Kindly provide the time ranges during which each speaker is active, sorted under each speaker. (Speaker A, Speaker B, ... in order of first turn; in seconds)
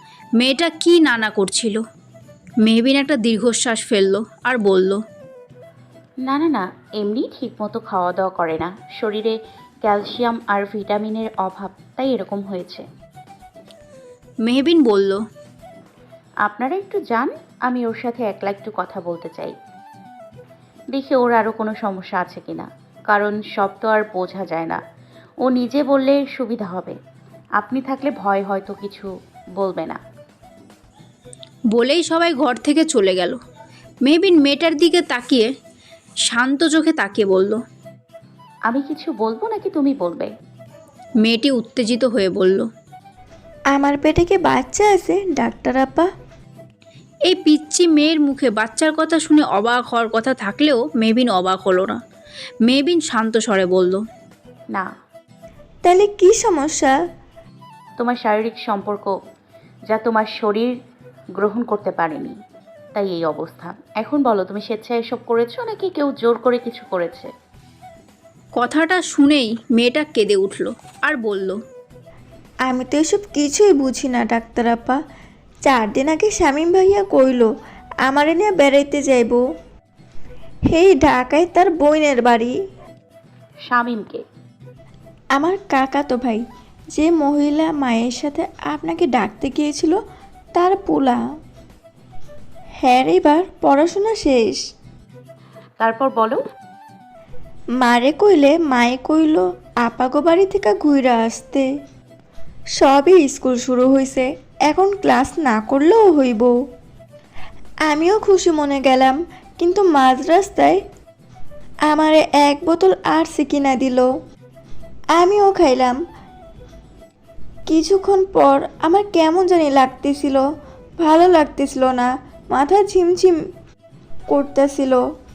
Speaker A: 0.4-1.8, 2.6-5.0, 14.4-15.2, 31.7-33.4, 34.0-35.5, 36.3-37.6, 41.2-42.7, 47.2-52.0, 52.6-54.0, 68.5-71.6
Speaker B: 6.2-12.8, 16.4-19.5, 20.9-24.8, 25.4-26.9, 27.6-30.0, 38.7-40.3, 58.0-59.1, 59.9-60.7, 61.4-62.3, 62.9-67.3, 83.7-84.2, 95.8-96.4
Speaker C: 43.7-46.1, 55.8-56.9, 72.7-75.0, 75.6-77.5, 78.1-79.4, 80.7-82.5, 85.3-90.0, 90.5-91.2, 92.8-94.6, 97.8-101.7, 102.8-106.5, 107.9-110.8, 111.9-114.1, 115.2-116.0, 117.7-120.4, 121.0-123.3, 124.3-125.0